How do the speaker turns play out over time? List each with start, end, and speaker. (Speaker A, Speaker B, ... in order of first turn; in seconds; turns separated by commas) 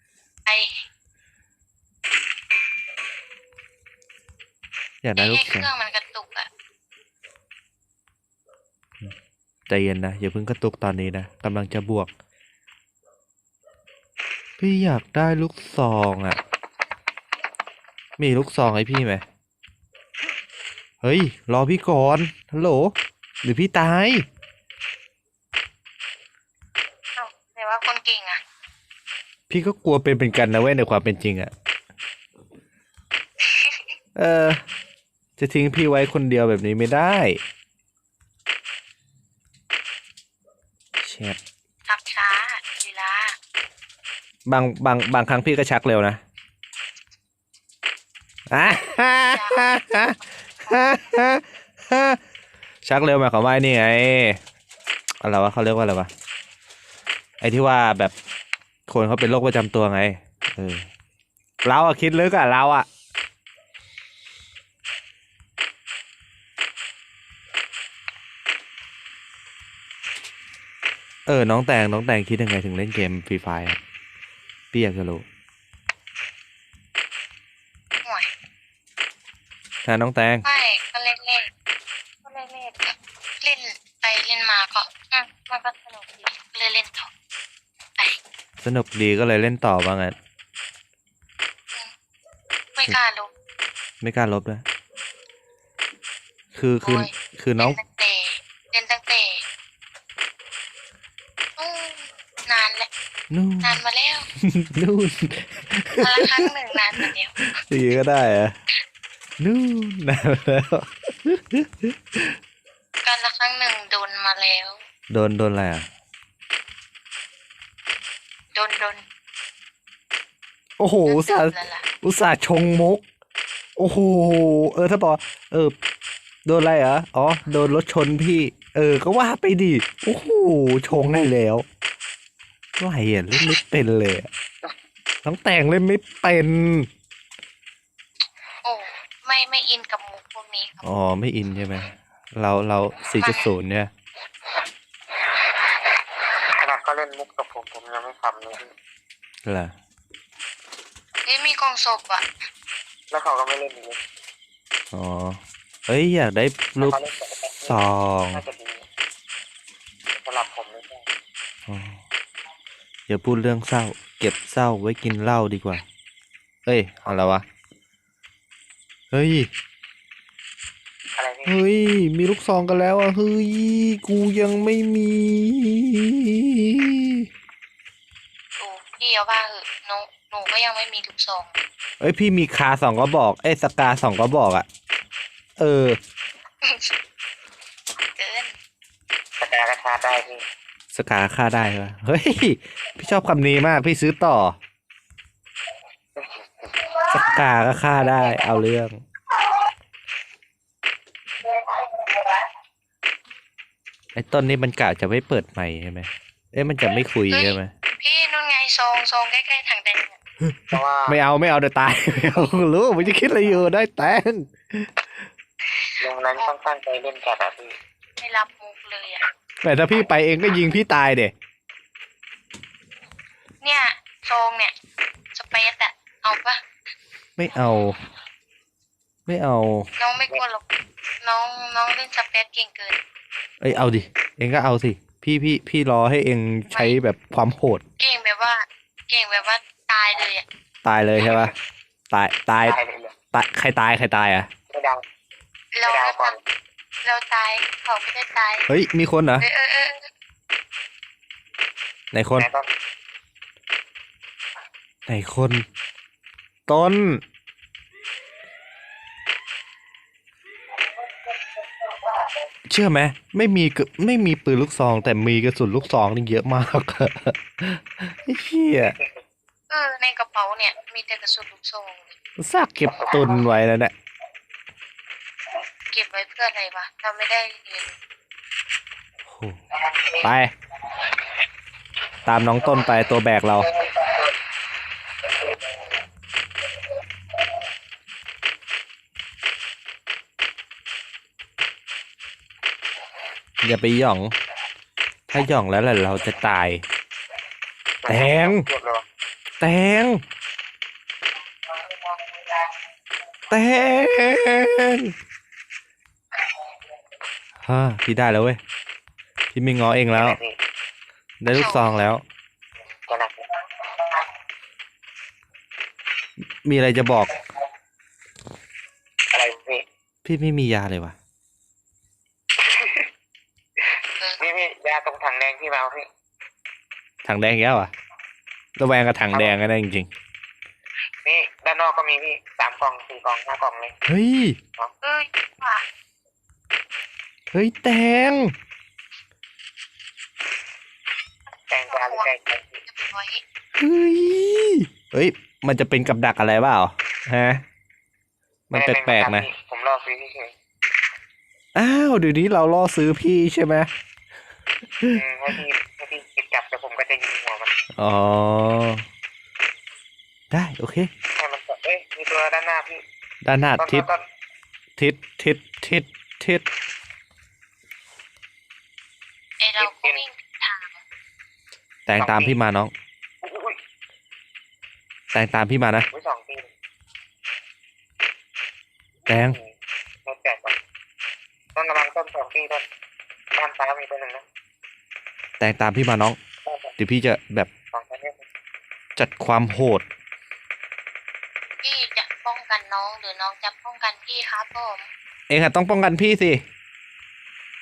Speaker A: 0.5-0.8, Speaker B: 5.0-5.7, Speaker A: 5.2-6.5, Speaker B: 9.7-12.1, Speaker B: 14.6-16.4, Speaker B: 18.2-19.2, Speaker B: 21.0-24.2, Speaker A: 27.1-28.4, Speaker B: 29.5-31.5, Speaker A: 33.5-33.8, Speaker B: 34.1-34.6, Speaker B: 35.4-37.4, Speaker B: 41.0-41.4, Speaker A: 41.9-43.4, Speaker B: 44.5-46.2, Speaker B: 48.5-52.2, Speaker A: 49.3-49.7, Speaker B: 52.8-54.4, Speaker B: 55.2-56.1, Speaker B: 57.4-58.1, Speaker B: 58.9-60.9, Speaker B: 61.6-62.9, Speaker B: 71.2-73.8, Speaker B: 74.7-75.2, Speaker A: 78.0-78.3, Speaker B: 79.8-80.5, Speaker A: 80.5-81.5, Speaker A: 82.2-87.1, Speaker B: 88.6-90.1, Speaker A: 92.8-93.3, Speaker B: 94.0-94.6, Speaker B: 96.5-97.8, Speaker A: 96.8-99.4, Speaker A: 101.6-102.9, Speaker B: 103.3-103.8, Speaker A: 103.6-104.2, Speaker B: 104.4-108.5, Speaker A: 106.0-107.3, Speaker B: 109.4-112.4, Speaker A: 113.0-114.8, Speaker B: 115.1-115.9, Speaker A: 118.5-119.0, Speaker B: 120.8-123.0, Speaker A: 121.1-121.8, Speaker B: 123.8-125.8, Speaker B: 126.5-131.7, Speaker B: 132.8-134.3, Speaker B: 135.2-136.9, Speaker A: 138.6-140.9, Speaker B: 140.8-143.9, Speaker A: 143.2-143.5, Speaker C: 146.6-148.7, Speaker B: 149.4-149.7, Speaker A: 151.2-152.2, Speaker C: 153.1-154.0, Speaker B: 154.9-157.0, Speaker C: 156.8-157.8, Speaker B: 157.7-158.4, Speaker C: 158.3-158.8, Speaker C: 160.1-161.1, Speaker B: 161.7-162.0, Speaker B: 163.1-165.8, Speaker B: 166.7-167.4, Speaker B: 169.1-169.5, Speaker C: 171.2-171.6, Speaker B: 171.4-177.3, Speaker A: 178.6-181.5, Speaker B: 182.0-184.7, Speaker B: 185.6-186.0, Speaker A: 186.6-186.9, Speaker A: 188.0-188.5, Speaker C: 189.4-190.4, Speaker B: 190.9-194.6, Speaker C: 196.2-196.9, Speaker B: 197.1-199.0, Speaker B: 204.1-207.7, Speaker A: 207.3-210.2, Speaker B: 210.4-215.0, Speaker C: 210.7-211.2, Speaker C: 216.0-217.7, Speaker A: 218.2-219.2, Speaker B: 219.6-221.3, Speaker A: 223.6-224.7, Speaker A: 225.3-226.6, Speaker B: 227.4-228.0, Speaker B: 229.3-229.9, Speaker A: 230.0-230.6, Speaker A: 231.2-233.0, Speaker B: 233.6-237.8, Speaker A: 236.7-237.0, Speaker A: 238.0-240.4, Speaker B: 240.8-241.5, Speaker C: 241.2-241.5, Speaker B: 242.1-242.8, Speaker C: 242.6-243.1, Speaker B: 243.3-244.5, Speaker C: 244.7-245.0, Speaker A: 245.7-246.3, Speaker C: 245.8-246.4, Speaker A: 247.0-248.7, Speaker B: 248.7-249.5, Speaker A: 249.4-250.1, Speaker B: 252.1-252.5, Speaker C: 252.4-252.7, Speaker B: 255.1-255.6, Speaker B: 256.7-257.2, Speaker B: 262.7-268.9, Speaker C: 268.8-269.2, Speaker A: 269.7-272.1, Speaker B: 272.4-273.9, Speaker C: 272.9-273.4, Speaker A: 275.9-277.9, Speaker B: 279.3-279.6, Speaker B: 280.2-280.5, Speaker B: 282.2-283.7, Speaker B: 293.6-294.3, Speaker B: 295.3-296.8, Speaker C: 298.0-299.0, Speaker B: 298.1-298.6, Speaker B: 299.6-300.2, Speaker B: 303.5-305.1, Speaker B: 307.6-308.6, Speaker B: 309.5-310.4, Speaker C: 310.1-310.6, Speaker B: 311.4-312.2, Speaker A: 311.5-312.1, Speaker C: 313.1-313.5, Speaker B: 316.6-317.4, Speaker C: 319.3-319.9, Speaker B: 320.2-321.1, Speaker C: 322.7-323.1, Speaker C: 324.4-326.1, Speaker B: 327.2-327.9, Speaker B: 328.8-330.1, Speaker C: 331.2-333.9, Speaker B: 334.1-334.6, Speaker A: 335.0-335.8, Speaker B: 337.5-338.5, Speaker C: 341.7-342.8, Speaker A: 341.9-342.3, Speaker A: 342.9-343.4, Speaker B: 343.8-347.6, Speaker B: 348.7-349.5, Speaker C: 348.7-350.5, Speaker B: 351.8-353.9, Speaker C: 355.1-357.7, Speaker B: 358.0-359.0, Speaker B: 360.5-361.1, Speaker C: 361.4-363.0, Speaker B: 363.4-364.1, Speaker C: 363.8-364.2, Speaker B: 365.0-366.6, Speaker A: 369.6-371.0, Speaker C: 369.8-370.2, Speaker B: 372.1-372.9, Speaker C: 372.2-372.6, Speaker C: 373.4-373.8, Speaker B: 375.3-376.1, Speaker C: 376.1-376.7, Speaker B: 379.3-379.6, Speaker C: 379.3-379.8, Speaker C: 380.2-380.8, Speaker C: 381.8-382.8, Speaker C: 383.6-384.4, Speaker B: 385.6-386.4, Speaker C: 386.6-386.9, Speaker B: 387.0-387.7, Speaker C: 387.9-388.4, Speaker B: 389.1-390.1, Speaker A: 391.8-395.1, Speaker B: 395.5-396.6